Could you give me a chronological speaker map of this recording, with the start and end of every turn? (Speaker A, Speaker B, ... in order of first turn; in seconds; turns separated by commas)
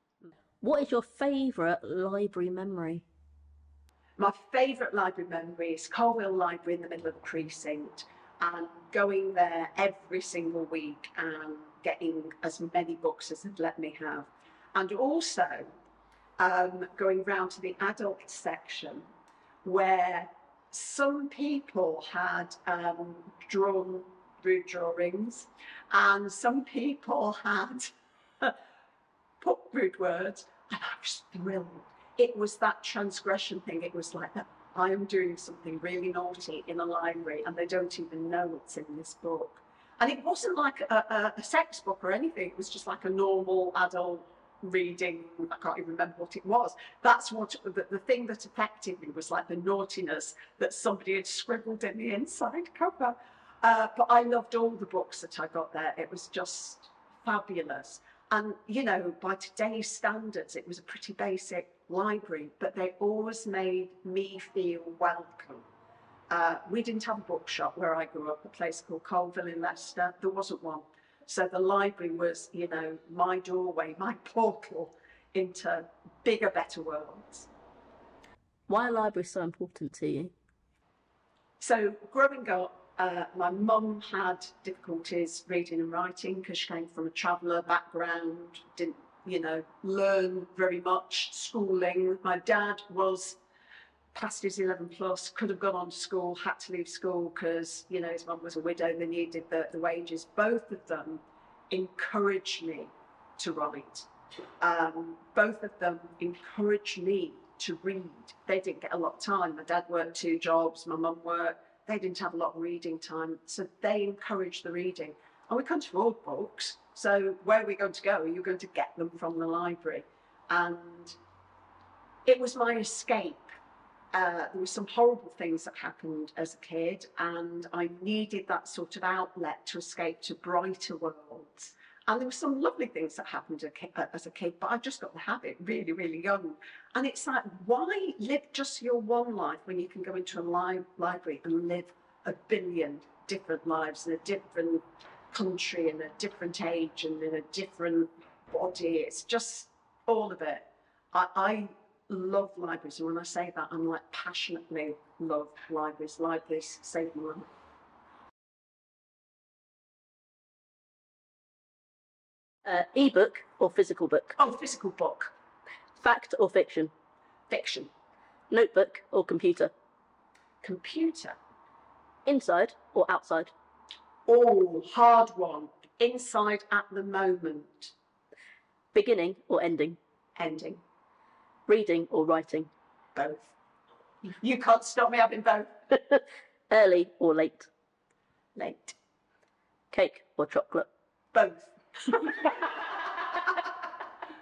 Speaker A: 0.6-3.0, Speaker B: 4.2-15.7, Speaker B: 16.4-19.1, Speaker B: 19.6-28.5, Speaker B: 29.4-65.7, Speaker B: 66.3-77.5, Speaker A: 78.7-80.3, Speaker B: 81.6-93.4, Speaker B: 94.1-104.1, Speaker B: 104.6-121.2, Speaker B: 122.2-123.5, Speaker B: 124.1-157.5, Speaker A: 162.6-164.4, Speaker B: 164.4-165.3, Speaker A: 166.0-166.9, Speaker B: 167.5-167.9, Speaker A: 168.5-169.7, Speaker B: 170.6-171.4, Speaker A: 172.2-173.5, Speaker B: 174.2-177.9, Speaker A: 178.9-180.0, Speaker B: 180.4-180.8, Speaker A: 181.7-182.7, Speaker B: 183.1-183.5, Speaker B: 184.2-186.0, Speaker A: 186.7-187.7, Speaker B: 188.6-188.9, Speaker A: 189.9-190.9, Speaker B: 191.3-192.9